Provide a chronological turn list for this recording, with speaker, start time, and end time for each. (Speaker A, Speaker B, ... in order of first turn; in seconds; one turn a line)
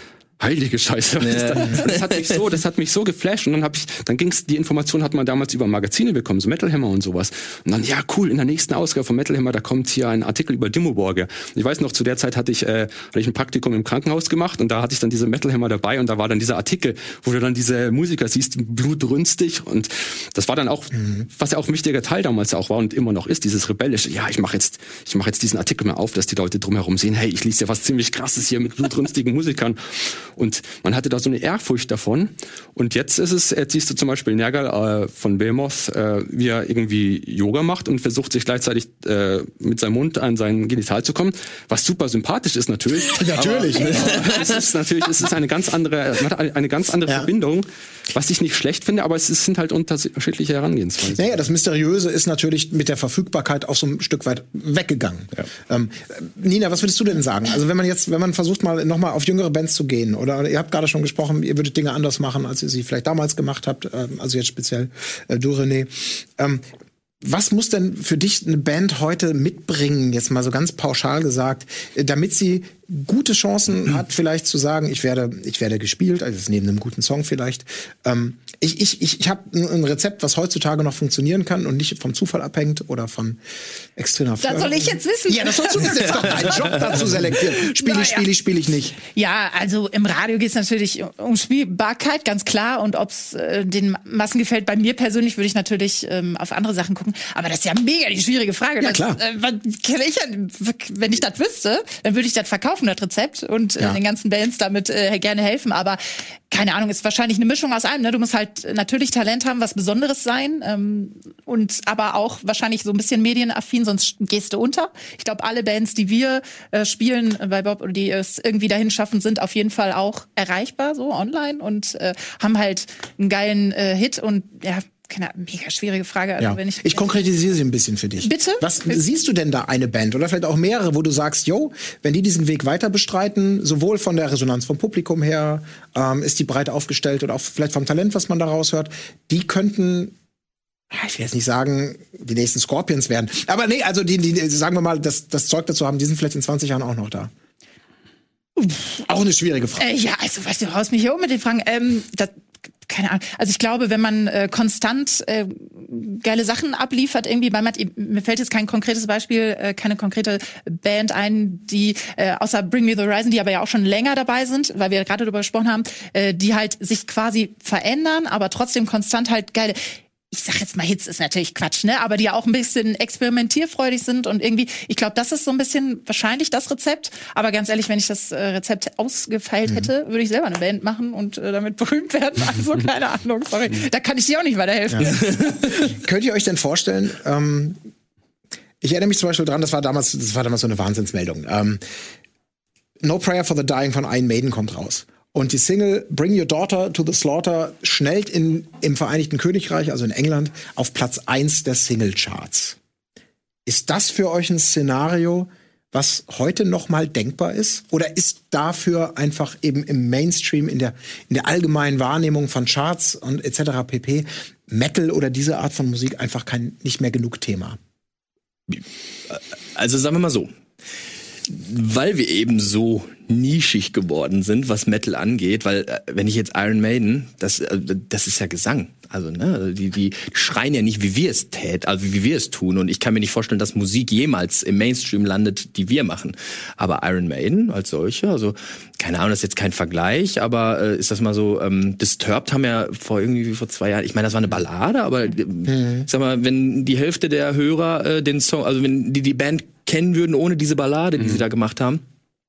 Speaker A: 0.4-51.4
Speaker B: 1.2-2.4
Speaker C: 43.1-44.3
Speaker C: 51.1-66.6
Speaker C: 67.2-83.4
Speaker C: 84.0-89.0
Speaker D: 84.4-88.2
Speaker D: 89.0-127.1
Speaker C: 98.8-99.2
Speaker C: 126.4-140.1
Speaker D: 128.2-129.0
Speaker C: 140.9-147.3
Speaker C: 148.6-149.9
Speaker D: 149.8-152.3
Speaker D: 152.9-169.8
Speaker D: 170.3-185.5
Speaker C: 185.7-187.8
Speaker C: 188.8-191.8
Speaker C: 193.0-202.8
Speaker C: 203.7-217.8
Speaker B: 218.7-220.5
Speaker B: 221.4-252.0
Speaker C: 245.7-246.1